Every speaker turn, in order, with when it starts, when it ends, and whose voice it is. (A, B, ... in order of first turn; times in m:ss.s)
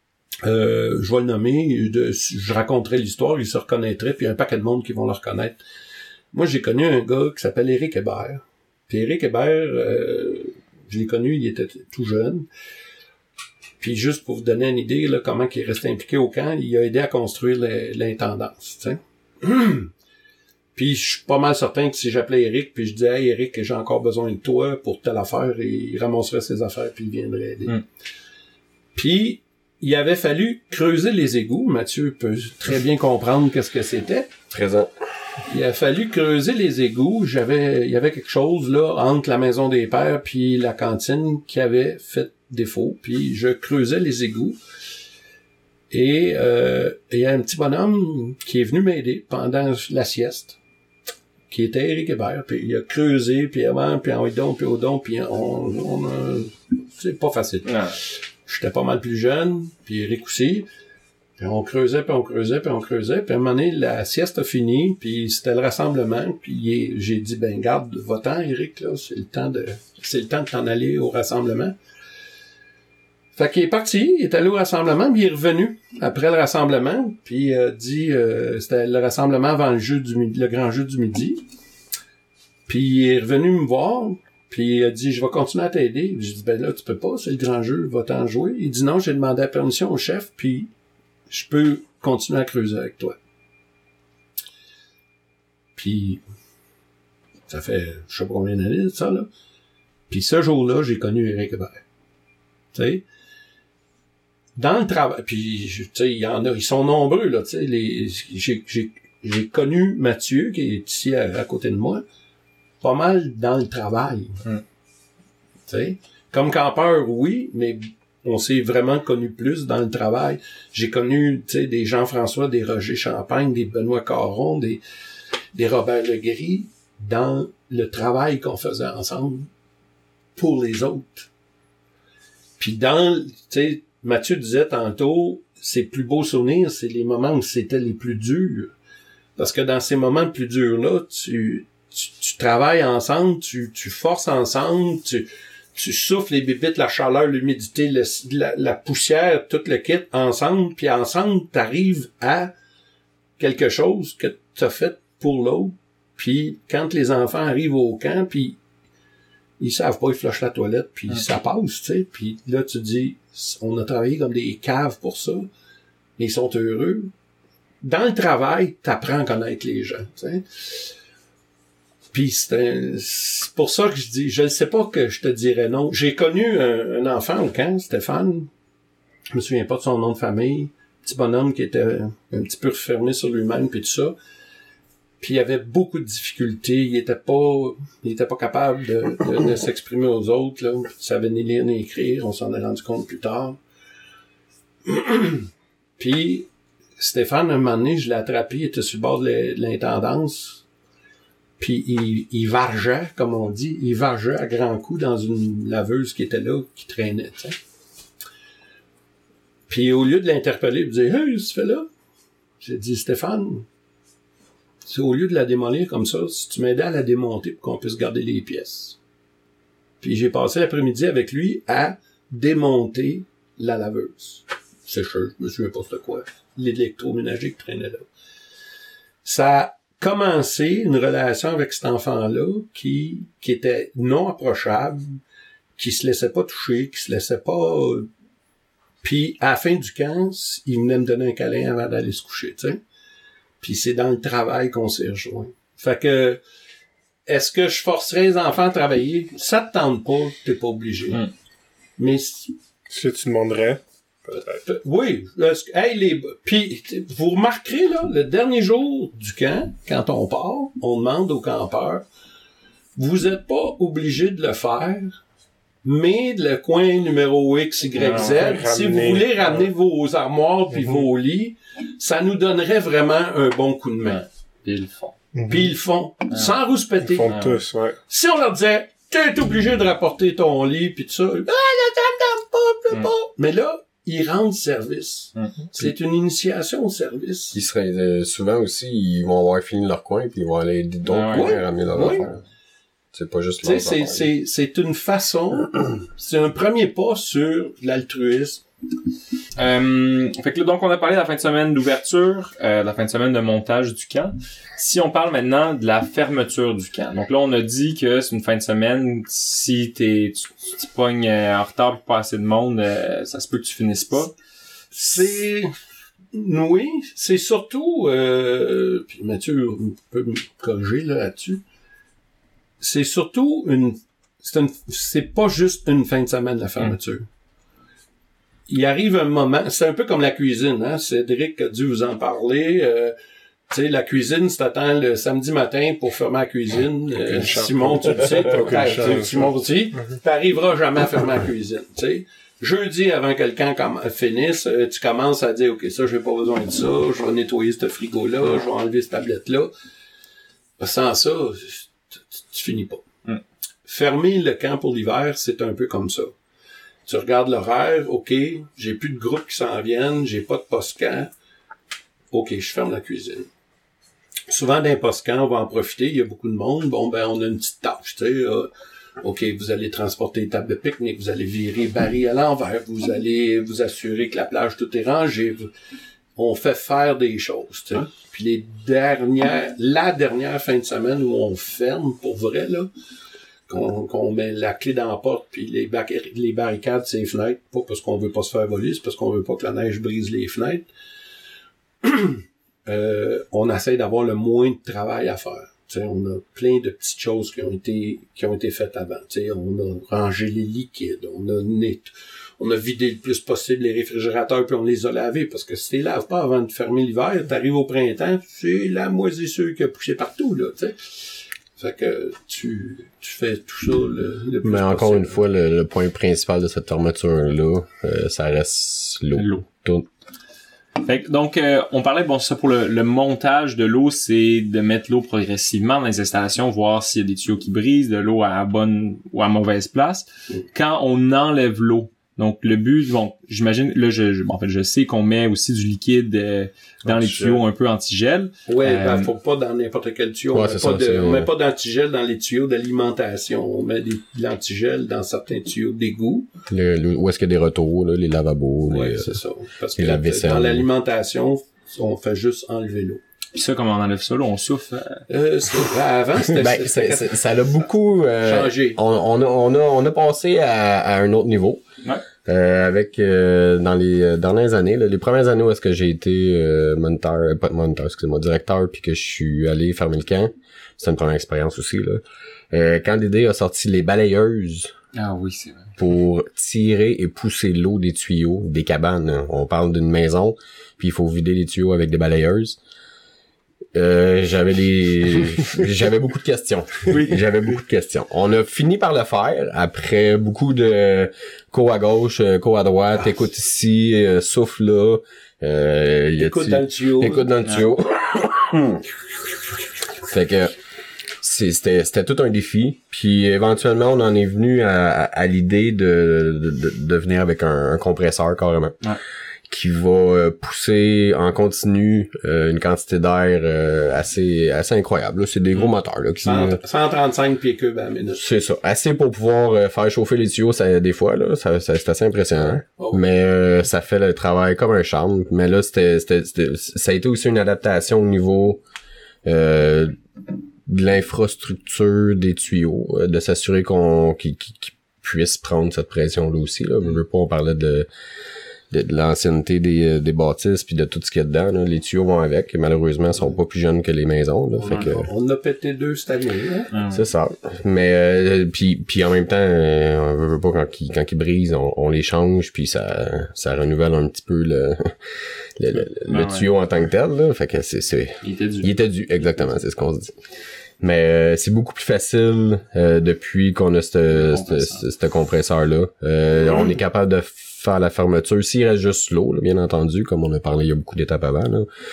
0:00.4-0:05.6 A
0:06.3-0:12.5 A
0:13.8-0:19.9 A
0:20.7-0:27.8 A
0:28.9-0:34.3 A
0:34.5-0:34.9 B
0:35.5-0:44.6 A
0:45.9-0:50.6 A
0:51.5-1:00.7 A
0:57.6-0:57.9 C
1:01.4-1:11.7 A
1:13.4-1:21.4 A
1:22.7-1:30.7 A
1:31.3-1:33.2 A
1:35.8-1:36.2 A
1:37.5-1:39.3 A
1:40.1-1:41.8 A
1:42.7-1:43.0 A
1:44.6-1:52.0 A
1:52.8-1:54.4 A
1:55.7-2:04.8 A
2:05.5-2:09.5 A
2:10.4-2:11.3 A
2:12.6-2:18.7 A
2:19.4-2:32.5 A
2:33.4-2:38.6 A
2:39.6-2:45.5 A
2:46.2-2:47.1 A
2:47.8-2:50.9 A
2:52.1-2:58.5 A
2:59.3-3:04.2 A
3:05.2-3:13.6 A
3:14.8-3:16.5 A
3:17.0-3:20.6 A
3:21.6-3:27.6 A
3:29.7-3:31.8 A
3:32.6-3:33.6 A
3:34.8-3:39.0 A
3:40.0-3:48.1 A
3:49.2-3:55.2 A
3:55.8-3:58.1 A
3:59.0-4:02.8 A
4:03.6-4:06.4 A
4:07.3-4:11.2 A
4:12.0-4:12.5 A
4:12.9-4:13.8 D
4:14.3-4:22.0 A
4:23.0-4:25.2 A
4:25.8-4:34.2 A
4:28.0-4:28.4 C
4:28.1-4:29.7 D
4:34.0-4:35.1 C
4:35.3-4:35.7 D
4:35.4-4:37.5 A
4:36.3-4:36.6 C
4:37.0-4:38.0 D
4:37.2-4:37.6 C
4:38.1-4:47.6 A
4:47.5-4:52.4 B
4:51.1-4:51.5 C
4:51.3-4:52.3 A
4:53.1-4:54.3 B
4:53.6-4:58.6 A
4:59.6-5:14.3 C
5:14.9-5:15.7 A
5:16.3-5:21.6 A
5:22.8-5:27.2 A
5:28.7-5:33.1 A
5:33.7-5:49.7 A
5:37.2-5:39.5 D
5:50.8-5:53.0 A
5:53.8-5:56.3 A
5:57.0-6:01.3 A
6:02.3-6:03.5 A
6:04.5-6:08.7 A
6:09.2-6:15.7 A
6:16.4-6:22.9 A
6:23.7-6:30.8 A
6:32.0-6:51.0 A
6:51.8-6:55.4 A
6:54.6-7:00.1 B
6:59.3-6:59.6 C
7:01.0-7:19.3 C
7:18.7-7:26.5 A
7:20.5-7:21.5 B
7:26.7-7:29.4 B
7:28.9-7:33.2 A
7:30.0-7:30.8 B
7:33.5-7:35.2 C
7:35.3-7:37.9 A
7:36.5-7:41.8 B
7:38.4-7:39.0 A
7:42.4-7:54.9 B
7:55.1-7:55.9 C
7:56.0-8:02.8 B
8:03.9-8:19.0 B
8:16.4-8:17.5 A
8:20.2-8:20.7 B
8:21.4-8:29.0 B
8:29.7-8:36.8 B
8:36.4-8:38.4 A
8:38.3-8:48.8 B
8:49.4-8:50.2 B
8:50.8-8:58.1 B
8:58.9-9:05.3 B
9:04.8-9:06.9 A
9:06.9-9:07.2 C
9:07.0-9:20.4 B
9:16.3-9:16.7 C
9:18.4-9:18.9 C
9:21.0-9:31.9 B
9:24.3-9:25.0 C